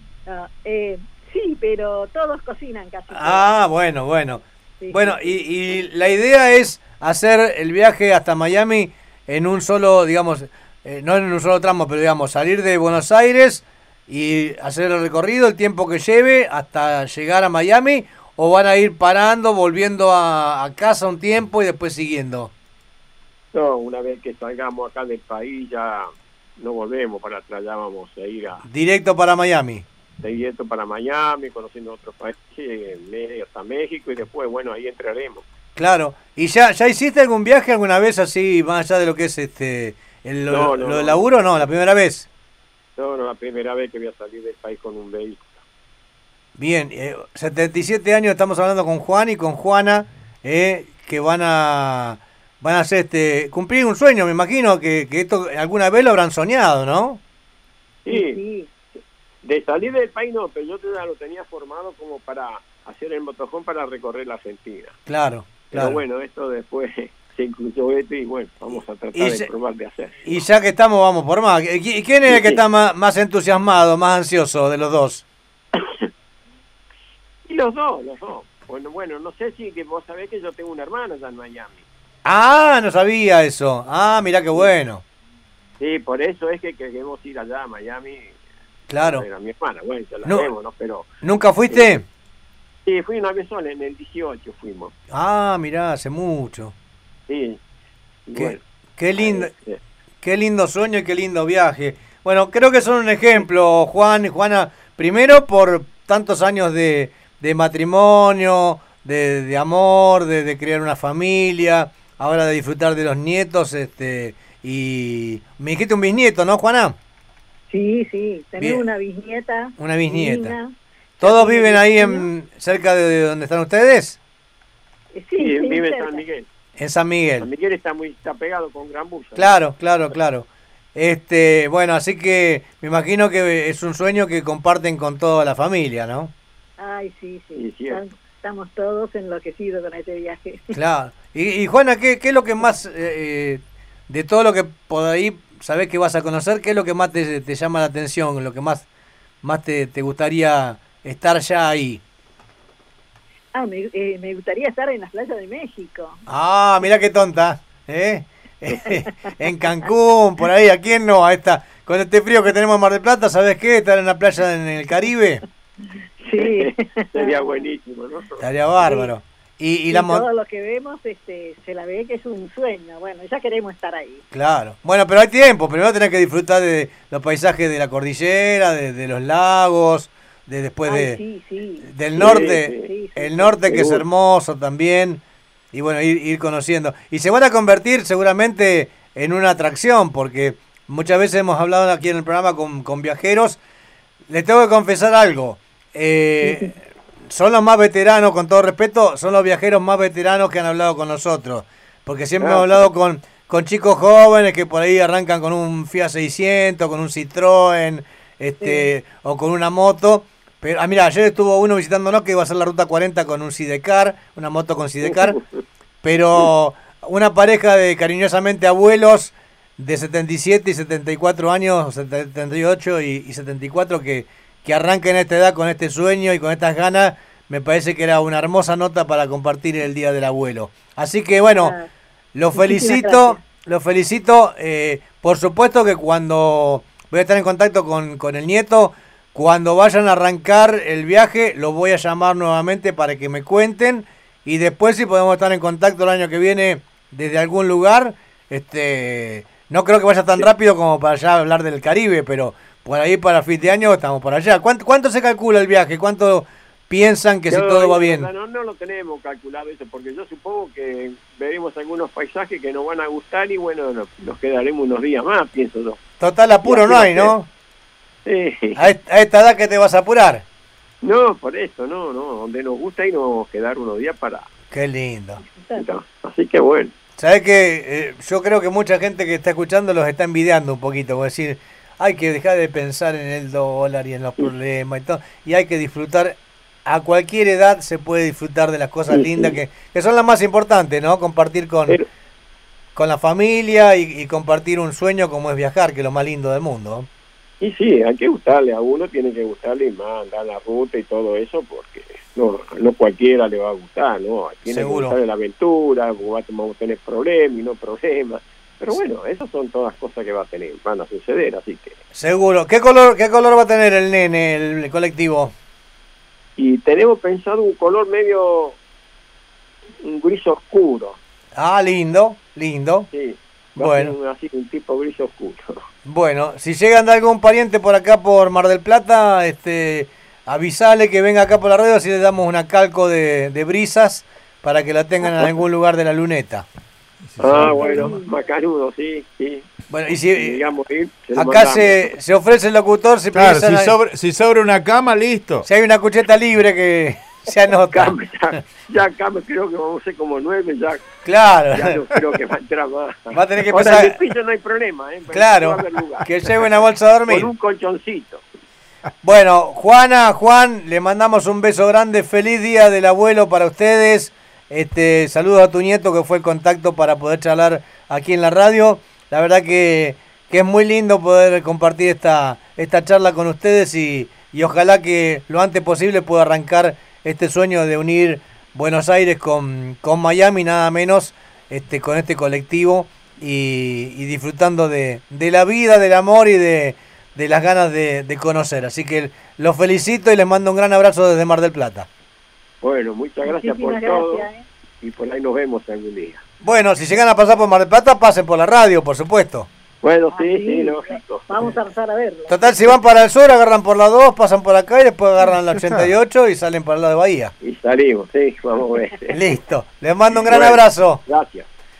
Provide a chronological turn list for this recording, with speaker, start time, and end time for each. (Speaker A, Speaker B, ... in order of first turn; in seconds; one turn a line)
Speaker A: 0.2-3.5
Speaker B: 3.1-22.5
Speaker A: 4.8-5.3
Speaker C: 23.5-28.6
Speaker B: 28.6-29.8
Speaker C: 30.2-35.4
Speaker B: 35.8-42.3
Speaker C: 40.5-41.7
Speaker C: 43.0-45.6
Speaker B: 46.6-57.2
Speaker C: 58.0-58.4
Speaker A: 58.1-58.7
Speaker C: 59.4-65.0
Speaker B: 65.1-66.0
Speaker C: 65.7-70.4
Speaker B: 69.1-69.5
Speaker B: 70.2-75.2
Speaker C: 72.3-72.6
Speaker C: 75.7-76.1
Speaker C: 77.4-81.8
Speaker B: 82.2-85.0
Speaker C: 85.8-88.4
Speaker B: 88.9-89.2
Speaker C: 89.0-91.1
Speaker B: 91.2-92.0
Speaker C: 92.8-94.9
Speaker B: 95.1-96.7
Speaker C: 97.3-97.6
Speaker C: 98.3-98.6
Speaker B: 98.3-99.5
Speaker C: 99.2-99.8
Speaker B: 100.2-117.0
Speaker A: 117.7-122.3
Speaker B: 118.6-118.8
Speaker B: 119.8-120.6
Speaker B: 121.2-124.2
Speaker A: 125.1-126.2
Speaker C: 125.4-126.5
Speaker B: 126.8-127.5
Speaker C: 127.4-129.6
Speaker B: 129.3-136.3
Speaker A: 136.8-140.7
Speaker C: 137.5-138.0
Speaker B: 140.7-148.9
Speaker B: 149.4-152.0
Speaker A: 153.5-156.2
Speaker B: 156.3-165.4
Speaker A: 166.2-167.6
Speaker C: 166.3-168.5
Speaker B: 168.4-170.2
Speaker A: 168.8-169.1
Speaker A: 169.9-174.2
Speaker B: 174.3-181.2
Speaker A: 180.8-181.9
Speaker B: 181.8-193.6
Speaker C: 182.2-182.9
Speaker A: 182.7-183.5
Speaker C: 183.7-184.0
Speaker B: 194.3-196.7
Speaker A: 196.4-196.7
Speaker B: 197.3-215.4
Speaker C: 202.4-202.8
Speaker C: 215.0-215.6
Speaker B: 216.0-231.8
Speaker A: 231.5-231.9
Speaker B: 232.3-258.3
Speaker A: 232.5-233.4
Speaker C: 257.5-266.0
Speaker B: 266.2-267.5
Speaker C: 266.6-267.3
Speaker C: 268.2-268.9
Speaker B: 268.8-270.4
Speaker C: 271.0-274.5
Speaker B: 274.7-275.4
Speaker A: 275.4-275.9
Speaker C: 275.8-276.9
Speaker B: 277.2-292.0
Speaker C: 289.1-289.6
Speaker B: 292.9-297.1
Speaker C: 297.6-312.0
Speaker B: 304.7-305.1
Speaker B: 312.1-315.5
Speaker C: 316.6-318.8
Speaker C: 320.0-321.2
Speaker B: 321.6-323.1
Speaker C: 323.1-325.8
Speaker B: 323.8-324.1
Speaker B: 326.0-336.6
Speaker D: 337.4-338.1
Speaker C: 337.4-339.7
Speaker A: 337.6-338.4
Speaker B: 339.9-340.6
Speaker C: 340.3-342.1
Speaker B: 341.3-344.0
Speaker D: 343.3-345.6
Speaker B: 345.6-348.1
Speaker C: 347.9-351.1
Speaker B: 351.2-352.0
Speaker C: 351.7-356.3
Speaker B: 353.3-354.2
Speaker B: 355.3-357.5
Speaker C: 357.3-358.4
Speaker B: 359.2-392.1
Speaker C: 392.8-394.5
Speaker A: 393.4-394.6
Speaker C: 395.0-396.4
Speaker B: 396.6-399.7
Speaker C: 400.0-401.5
Speaker A: 400.3-402.7
Speaker B: 402.5-407.5
Speaker C: 407.6-409.4
Speaker B: 409.3-411.2
Speaker C: 410.4-411.7